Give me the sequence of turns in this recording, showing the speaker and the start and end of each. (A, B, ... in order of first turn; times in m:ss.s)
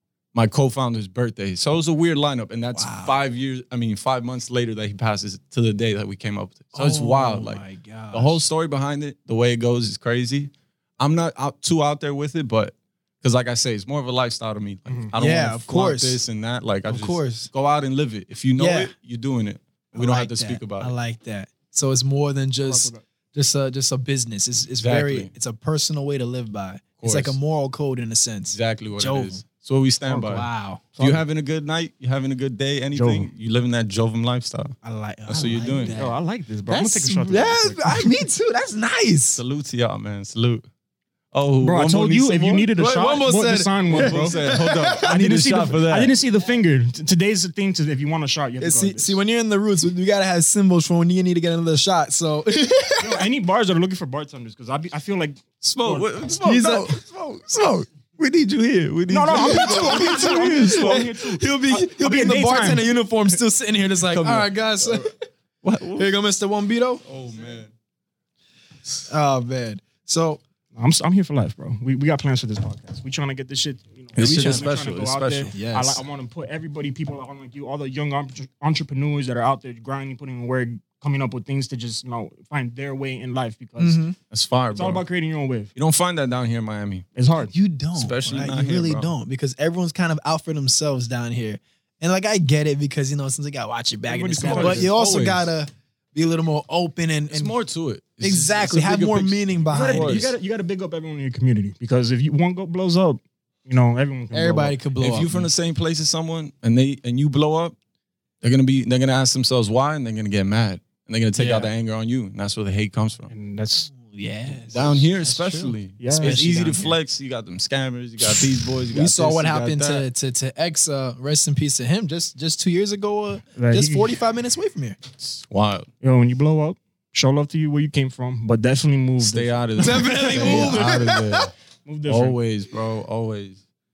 0:00.3-0:20.9 A
0:02.7-0:03.2 B
0:06.7-0:08.4 B
0:14.9-0:15.1 C
0:15.2-0:16.2 B
0:16.9-0:17.5 B
0:18.6-0:18.9 B
0:19.9-0:29.4 B
0:22.6-0:23.0 C
0:24.8-0:25.3 A
0:27.0-0:27.4 A
0:28.5-0:34.8 A
0:30.1-0:30.4 C
0:30.2-0:30.9 B
0:31.0-0:31.2 C
0:32.9-0:33.3 C
0:34.8-0:36.2 B
0:35.3-0:36.0 A
0:35.9-0:38.0 C
0:36.7-0:39.4 B
0:39.4-0:40.7 A
0:41.3-0:42.8 A
0:41.6-0:49.2 C
0:42.8-0:45.2 B
0:43.9-0:46.1 A
0:48.6-0:53.3 B
0:53.0-0:56.3 C
0:55.6-1:01.1 A
0:56.4-0:57.0 B
0:59.1-1:02.9 C
0:59.3-1:05.1 B
1:04.0-1:05.1 A
1:05.6-1:06.1 A
1:05.9-1:07.0 B
1:07.1-1:07.7 A
1:09.1-1:10.4 B
1:10.8-1:24.0 C
1:14.2-1:15.6 A
1:14.2-1:14.7 B
1:15.5-1:16.0 B
1:23.8-1:24.2 B
1:24.3-1:25.0 A
1:24.7-1:25.7 C
1:25.8-1:27.1 A
1:27.2-1:27.5 C
1:27.5-1:37.6 B
1:28.0-1:29.1 A
1:34.1-1:35.0 C
1:34.4-1:35.5 A
1:37.3-1:40.3 A
1:38.2-1:40.3 B
1:39.7-1:44.8 C
1:44.3-1:45.5 B
1:45.0-1:47.8 A
1:48.4-1:53.3 A
1:51.4-1:51.7 B
1:53.3-1:53.9 C
1:53.9-1:57.0 B
1:54.7-2:00.1 A
1:56.0-1:56.4 C
1:58.3-2:05.0 B
2:03.6-2:04.2 C
2:05.2-2:05.9 A
2:06.0-2:10.7 C
2:09.2-2:11.5 A
2:09.8-2:11.5 B
2:11.8-2:12.4 C
2:12.1-2:13.6 A